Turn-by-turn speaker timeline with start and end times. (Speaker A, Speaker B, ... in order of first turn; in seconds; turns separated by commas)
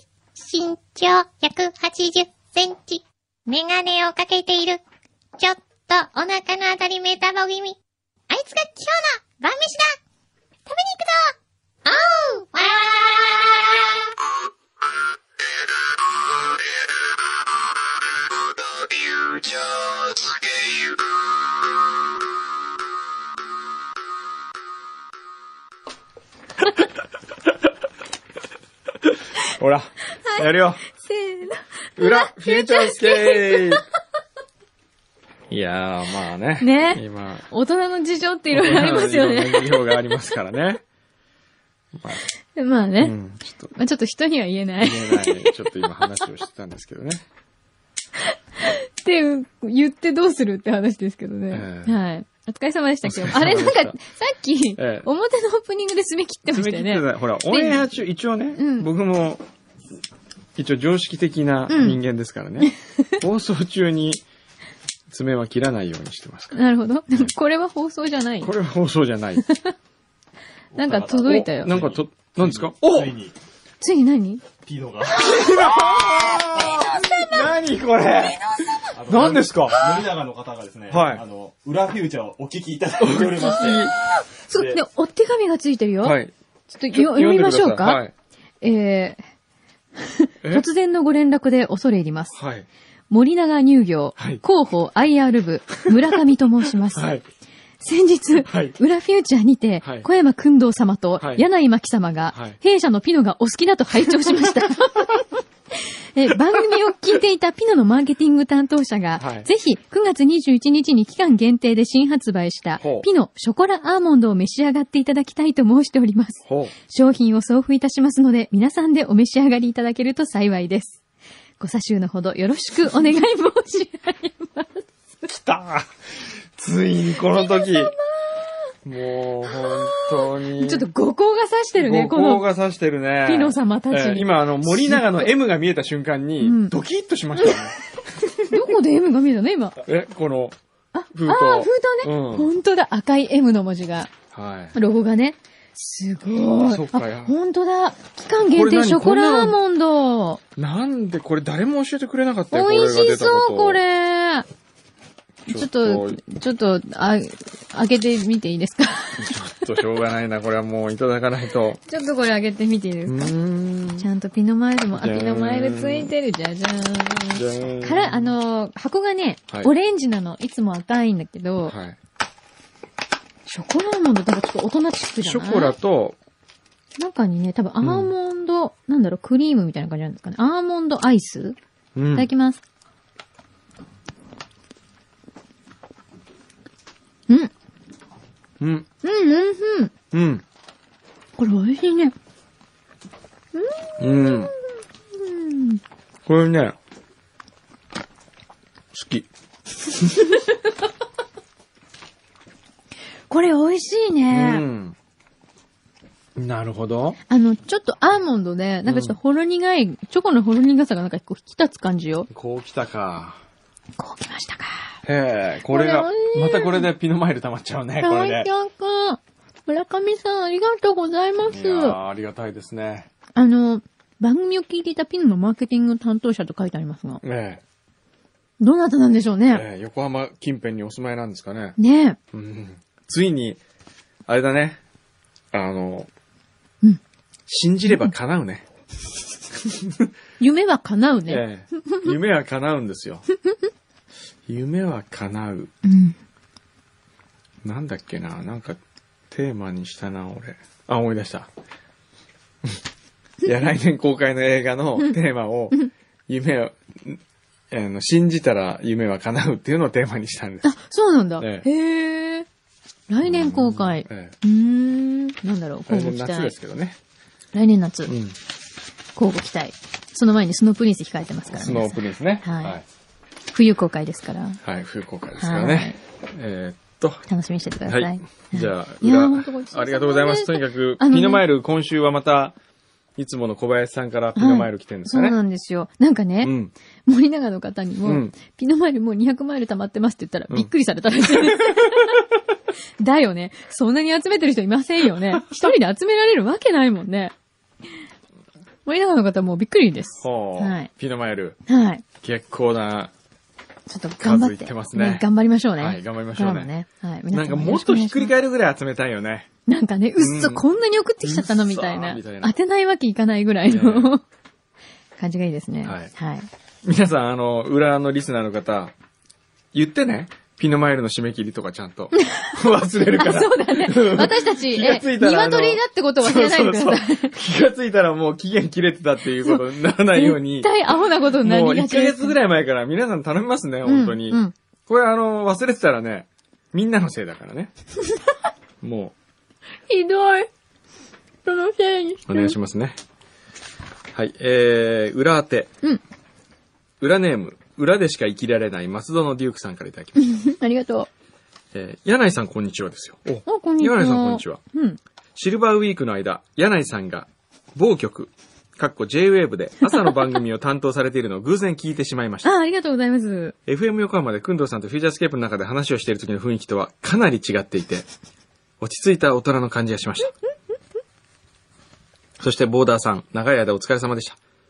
Speaker A: 0.4-4.8, Speaker A: 5.4-7.8, Speaker A: 8.3-10.0, Speaker A: 10.7-14.0, Speaker B: 29.1-30.8, Speaker C: 31.0-33.8, Speaker B: 32.0-33.8, Speaker B: 35.5-37.5, Speaker C: 36.6-40.0, Speaker B: 38.5-40.8, Speaker B: 41.9-42.2, Speaker C: 42.5-43.1, Speaker B: 43.0-43.7, Speaker C: 43.7-45.5, Speaker B: 44.8-47.2, Speaker C: 48.6-57.9, Speaker B: 51.5-52.0, Speaker B: 53.0-54.0, Speaker B: 54.8-55.1, Speaker B: 56.5-59.4, Speaker C: 58.5-58.9, Speaker B: 60.5-64.2, Speaker C: 61.7-62.0, Speaker B: 65.1-66.6, Speaker C: 66.5-68.5, Speaker B: 68.4-69.5, Speaker C: 69.5-69.7, Speaker D: 70.7-73.3, Speaker C: 70.7-71.7, Speaker B: 71.2-73.1, Speaker C: 73.8-74.4, Speaker D: 74.6-75.3, Speaker B: 75.1-80.0, Speaker D: 78.9-83.9, Speaker B: 80.9-81.2, Speaker B: 83.0-83.9, Speaker C: 84.5-86.2, Speaker B: 86.0-86.3, Speaker C: 86.7-88.0, Speaker B: 86.9-88.1, Speaker C: 88.6-89.2, Speaker C: 90.0-92.3, Speaker B: 92.3-92.7, Speaker C: 93.1-97.1, Speaker B: 94.2-94.4, Speaker B: 96.9-97.2, Speaker C: 97.8-105.2, Speaker B: 98.4-98.8, Speaker B: 99.8-100.1, Speaker B: 101.2-101.4, Speaker B: 102.3-102.6, Speaker C: 105.8-121.0, Speaker B: 109.2-109.5, Speaker B: 112.8-113.1, Speaker B: 116.5-116.7, Speaker C: 121.6-124.9, Speaker B: 125.2-125.9, Speaker B: 126.5-127.9, Speaker C: 127.3-128.6, Speaker B: 128.8-130.9, Speaker C: 129.5-132.4, Speaker B: 131.8-137.8, Speaker C: 133.2-135.3, Speaker C: 136.4-136.7, Speaker C: 138.4-139.8, Speaker B: 139.8-140.6, Speaker C: 140.9-144.1, Speaker B: 141.1-142.5, Speaker B: 144.3-144.7, Speaker C: 144.7-150.4, Speaker B: 146.6-147.3, Speaker B: 148.4-149.6, Speaker B: 150.6-153.8, Speaker C: 152.5-154.4, Speaker C: 155.5-159.3, Speaker B: 155.5-156.2, Speaker B: 159.2-161.8, Speaker C: 161.9-163.3, Speaker B: 163.1-164.1, Speaker C: 164.0-171.7, Speaker B: 164.9-166.1, Speaker B: 167.3-168.3, Speaker B: 171.7-172.0, Speaker C: 173.5-175.7, Speaker B: 175.2-176.2, Speaker C: 177.0-181.6, Speaker B: 177.8-178.1, Speaker B: 181.9-182.3, Speaker C: 182.1-182.6, Speaker B: 188.6-188.9, Speaker C: 189.0-189.9, Speaker B: 190.1-190.4, Speaker C: 191.4-192.1, Speaker C: 193.5-194.5, Speaker B: 194.0-194.5, Speaker C: 195.1-195.8, Speaker B: 196.2-196.8, Speaker B: 198.9-199.3, Speaker B: 199.9-200.3, Speaker C: 203.3-204.6, Speaker B: 204.3-204.9, Speaker B: 206.4-207.2, Speaker C: 207.3-212.3, Speaker B: 208.8-209.2, Speaker B: 212.3-213.4, Speaker C: 214.0-214.9, Speaker B: 215.0-218.5, Speaker C: 215.7-216.9, Speaker C: 218.0-222.0, Speaker B: 221.5-223.1, Speaker C: 223.3-227.2, Speaker B: 227.2-227.6, Speaker C: 228.6-229.7, Speaker B: 229.5-231.8, Speaker C: 231.8-232.2, Speaker B: 232.3-233.6, Speaker B: 234.3-234.8, Speaker B: 235.5-236.1, Speaker B: 237.5-238.7, Speaker C: 237.9-238.1, Speaker B: 239.6-240.1, Speaker C: 240.4-242.1, Speaker B: 241.3-243.2, Speaker B: 244.5-245.7, Speaker C: 245.8-246.2, Speaker B: 247.6-248.8, Speaker B: 249.3-251.5, Speaker B: 253.4-255.8, Speaker B: 256.3-257.2, Speaker B: 257.7-260.7, Speaker C: 260.6-262.5, Speaker B: 261.4-261.7, Speaker C: 263.1-266.5, Speaker B: 263.2-264.3, Speaker B: 265.9-267.0, Speaker C: 267.5-268.1, Speaker B: 268.1-268.4, Speaker C: 269.1-272.8, Speaker B: 271.5-272.8, Speaker C: 273.5-274.6, Speaker B: 274.6-277.2, Speaker C: 275.4-276.0, Speaker C: 277.3-281.4, Speaker B: 277.9-282.6, Speaker B: 283.2-285.4, Speaker C: 284.4-286.5, Speaker B: 286.4-286.7, Speaker C: 287.1-292.2, Speaker B: 288.0-288.3, Speaker B: 291.3-291.7, Speaker C: 293.0-297.3, Speaker C: 298.9-300.9, Speaker B: 300.2-301.6, Speaker C: 301.7-302.0, Speaker B: 302.2-303.1, Speaker C: 303.9-308.3, Speaker B: 304.2-306.7, Speaker B: 307.3-309.5, Speaker C: 309.7-314.2, Speaker B: 310.2-310.6, Speaker B: 311.2-312.5, Speaker B: 313.7-314.1, Speaker C: 315.2-316.5, Speaker B: 315.8-316.1, Speaker B: 316.8-318.9, Speaker B: 319.7-330.7, Speaker C: 322.1-327.3, Speaker C: 330.1-332.4, Speaker B: 331.4-337.7, Speaker C: 333.8-334.5, Speaker B: 338.8-339.1, Speaker C: 339.9-340.5, Speaker C: 341.4-342.6, Speaker B: 342.3-343.0, Speaker B: 344.1-345.7, Speaker B: 347.0-350.2, Speaker C: 350.2-351.1, Speaker B: 351.7-354.6, Speaker C: 353.4-355.0, Speaker B: 355.3-362.5, Speaker C: 362.4-363.5, Speaker B: 363.7-368.1, Speaker B: 368.8-370.3, Speaker B: 372.4-374.4